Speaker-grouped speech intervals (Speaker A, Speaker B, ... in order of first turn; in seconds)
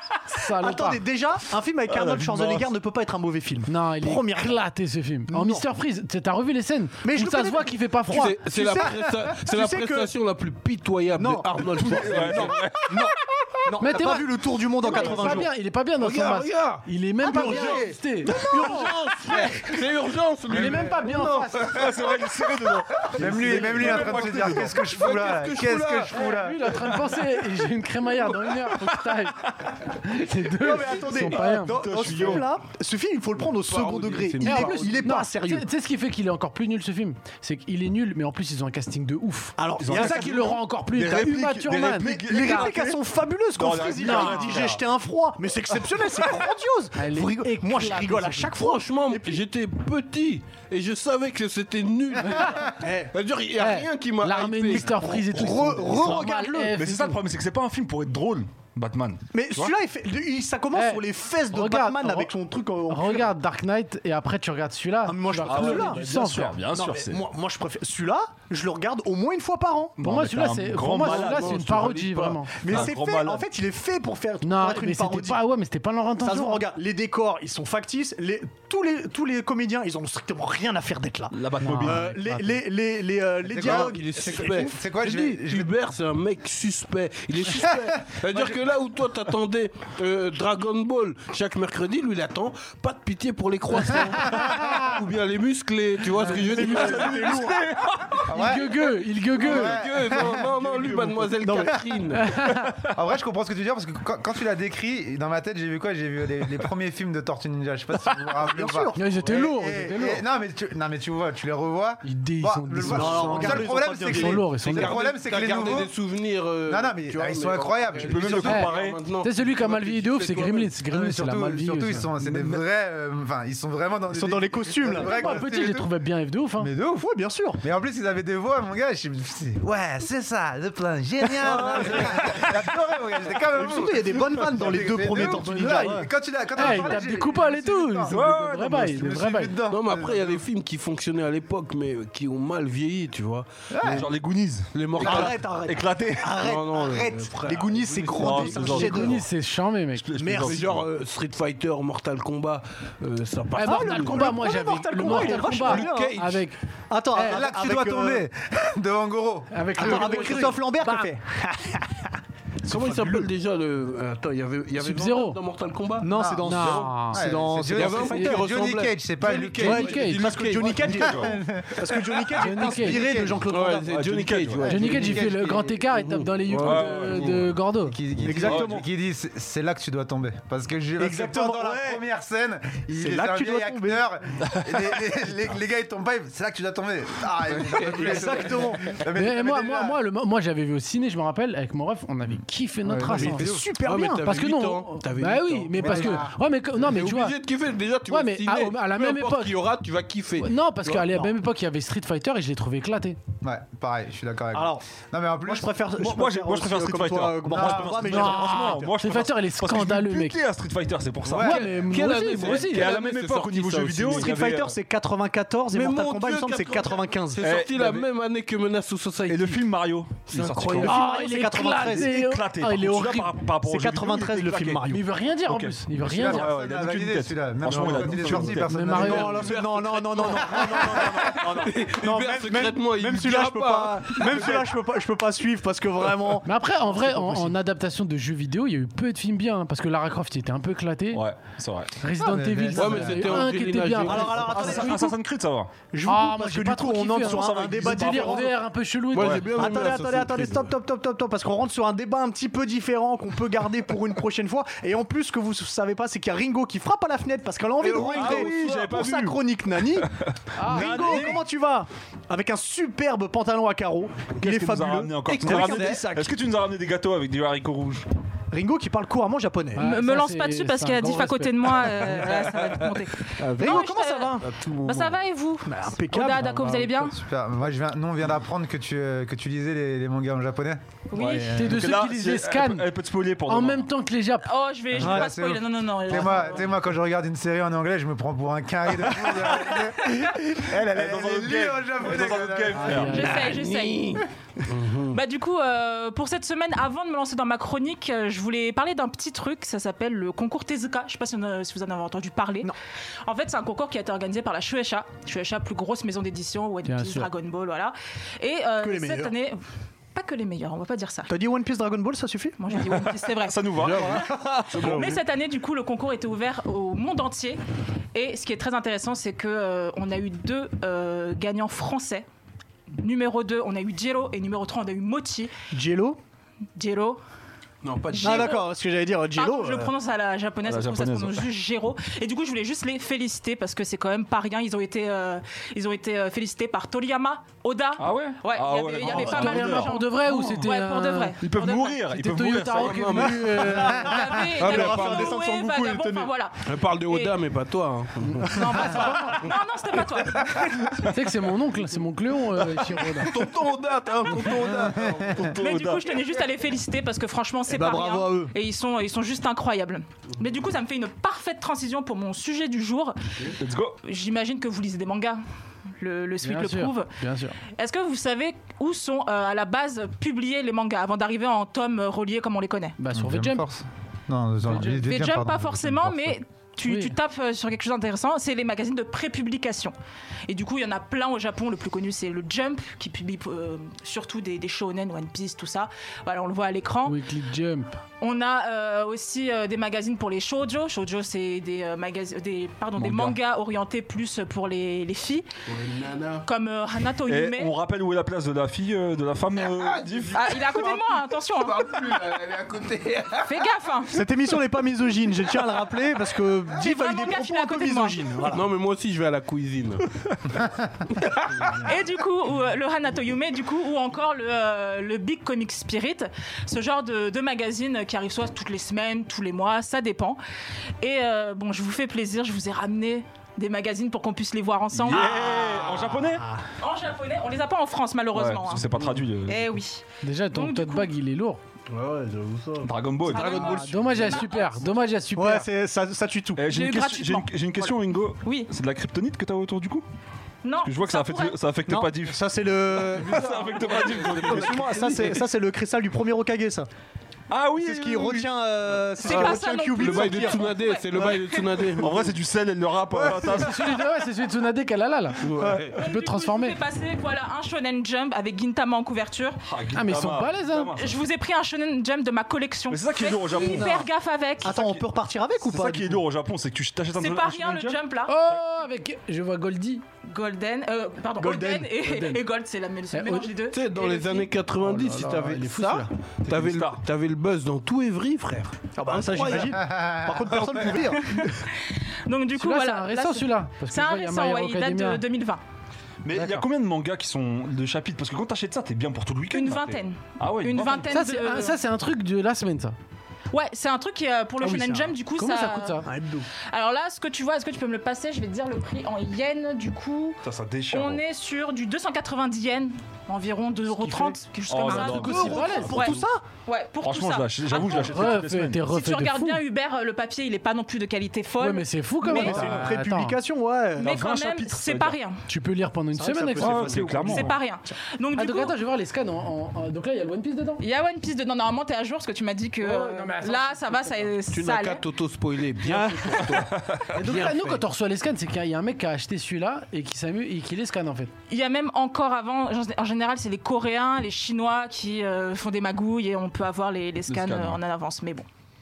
Speaker A: 0.3-1.0, 3.7-8.3, 13.8-19.1, 20.5-21.6, 26.1-32.4, 34.4-42.7, 44.0-44.7, 47.0-48.5, 53.6-57.2, 60.7-62.3, 62.9-66.6, 70.0-72.6, 74.4-76.6, 81.6-82.0, 98.3-99.8, 102.2-102.7, 108.9-110.2, 112.0-115.0, 118.4-122.1, 125.0-126.7, 136.6-139.5, 148.7-150.1, 153.6-156.6, 159.5-161.1, 164.8-165.4, 166.4-167.2, 169.6-170.2, 172.4-173.0, 174.7-178.0, 189.1-193.5, 194.2-197.3, 198.1-199.5, 200.4-203.2, 208.1-210.4, 211.4-212.9, 220.8-223.3, 224.9-226.5, 228.7-229.4, 236.4-241.2, 242.0-245.1, 246.1-249.4, 260.6-261.3, 269.7-272.2, 281.5-282.9, 283.5-284.5, 292.8-293.5, 306.9-307.3, 339.0-341.4, 342.1-344.1, 351.0-353.3, 366.4-367.6, 373.0-373.6, 374.7-374.9, 376.8-377.1, 387.1-388.0, 430.2-431.6, 433.6-435.6, 453.4-456.8, 459.9-460.9, 468.3-470.0, 473.1-473.5, 474.8-476.1, 482.5-485.2, 486.3-486.6, 491.1-492.9, 494.6-496.1, 503.9-506.1, 507.9-509.6, 511.6-513.4, 515.5-517.5, 518.3-520.8, 522.8-524.4, 527.1-531.3
Speaker B: 0.6-4.5, 5.3-5.6, 7.0-10.1, 11.2-15.5, 17.2-18.9, 23.2-24.6, 30.5-35.7, 39.6-40.6, 42.3-49.4, 52.8-53.1, 55.0-56.8, 59.3-63.3, 65.0-66.0, 66.7-70.0, 72.6-75.4, 76.2-84.7, 96.2-97.6, 101.3-101.8, 108.4-109.4, 112.8-114.5, 124.1-125.2, 126.9-127.6, 131.5-131.9, 133.5-136.0, 145.0-149.2, 150.2-150.6, 153.6-156.1, 156.9-158.2, 159.8-163.3, 166.0-168.6, 169.6-173.9, 178.2-178.8, 181.0-182.0, 182.9-184.0, 187.8-188.9, 193.0-194.3, 195.8-196.3, 204.5-204.8, 205.4-208.9, 214.1-217.4, 220.8-222.3, 223.5-225.1, 227.8-228.3, 228.9-237.5, 244.1-245.2, 245.9-248.5, 249.5-260.1, 260.6-266.4, 268.5-269.9, 273.6-274.5, 275.6-276.9, 285.0-285.3, 308.8-309.3, 311.3-312.6, 325.7-326.2, 328.2-329.9, 344.1-346.3, 357.7-358.5, 404.1-408.6, 435.3-436.7, 441.9-446.9, 447.8-450.7, 453.2-453.5, 464.6-466.2, 471.4-471.9, 475.7-476.1, 479.0-481.5, 496.1-496.4, 505.5-506.4, 512.2-514.1, 516.1-517.5, 525.8-526.5
Speaker C: 1.9-2.7, 11.8-13.7, 14.8-15.4, 21.5-24.8, 31.7-32.5, 39.8-43.0, 43.5-44.8, 56.7-59.7, 65.4-67.2, 70.0-71.8, 72.7-73.4, 81.3-82.6, 96.5-98.3, 102.5-102.9, 118.0-119.0, 122.2-122.6, 135.7-136.1, 138.1-139.1, 143.8-146.3, 148.1-149.2, 150.0-150.8, 170.8-171.3, 173.9-174.9, 176.6-177.6, 178.3-178.8, 206.0-211.8, 212.4-214.7, 217.4-218.1, 219.3-221.0, 221.6-224.8, 225.5-228.9, 230.6-231.7, 234.3-234.6, 241.1-241.9, 244.3-245.7, 247.2-248.5, 249.2-249.4, 257.8-259.4, 260.0-261.4, 264.4-268.0, 272.3-272.8, 274.6-275.1, 281.1-283.9, 290.9-293.3, 312.8-314.4, 330.6-331.5, 338.0-340.7, 341.4-343.5, 355.3-356.2, 363.6-364.0, 393.0-393.4, 397.3-400.5, 424.9-426.4, 428.3-429.7, 432.8-433.7, 436.6-440.0, 440.8-445.3, 447.5-448.5, 451.9-454.0, 459.6-461.2, 462.9-464.0, 464.7-465.0, 465.6-468.0, 476.5-477.0, 486.2-491.2, 500.4-501.2, 504.7-506.2, 507.0-508.9, 512.3-512.9, 514.0-515.2, 516.6-517.5, 526.5-527.2, 537.3-537.8
Speaker D: 8.1-12.6, 16.0-16.9, 18.3-21.8, 23.5-26.1, 33.4-35.1, 48.6-56.2, 71.0-72.9, 83.6-97.4, 99.4-102.3, 114.7-120.7, 139.7-144.1, 144.7-145.4, 146.3-149.0, 150.4-154.4, 155.0-156.4, 162.6-166.1, 167.7-171.1, 173.5-175.3, 175.9-177.2, 193.8-201.1, 211.3-214.3, 215.7-219.7, 220.3-220.9, 227.8-234.7, 242.7-244.6, 249.1-250.7, 257.8-258.8, 265.5-265.9, 273.4-273.9, 293.2-295.2, 313.8-315.2, 327.8-328.6, 342.7-345.4, 346.6-349.5, 353.2-355.5, 395.7-396.5, 399.6-403.7, 408.4-411.8, 431.9-434.4, 443.2-445.4, 449.2-452.4, 455.4-456.0, 473.7-475.9, 476.4-479.8, 524.5-527.8
Speaker E: 23.2-26.8, 83.4-85.7, 98.3-98.8, 99.3-100.8, 102.9-115.9, 116.7-118.5, 120.9-125.9, 126.6-127.0, 127.6-140.4, 143.7-144.1, 157.2-160.3, 166.1-170.1, 170.9-173.4, 174.6-175.7, 177.8-190.0, 192.9-193.7, 203.4-205.7, 207.5-208.2, 226.0-229.5, 242.2-243.4, 276.9-280.8, 284.9-293.0, 373.1-376.3, 479.8-480.7
Speaker F: 269.8-277.2, 281.1-281.5, 284.4-286.6, 293.1-294.2, 295.1-302.7, 303.2-309.6, 310.1-311.3, 312.6-313.7, 314.7-317.6, 318.1-322.2, 323.0-325.5, 326.8-327.2, 328.1-328.7, 329.3-342.0, 344.0-347.4, 348.4-350.8, 355.6-363.4, 364.0-365.4, 366.0-373.0, 374.7-379.9, 380.5-387.2, 388.2-395.5, 396.4-397.7, 400.3-401.9, 403.4-404.2, 406.8-408.2, 411.8-420.4, 421.0-426.2, 426.8-431.1, 433.2-434.9, 436.7-437.5, 438.4-438.7, 440.6-441.6, 449.2-451.8, 456.0-459.6, 460.9-464.8, 467.1-468.4, 470.2-474.5, 481.1-485.6, 489.5-491.8, 493.5-496.1, 496.7-512.6, 514.0-515.4, 517.3-518.7, 520.8-525.0, 531.5-538.5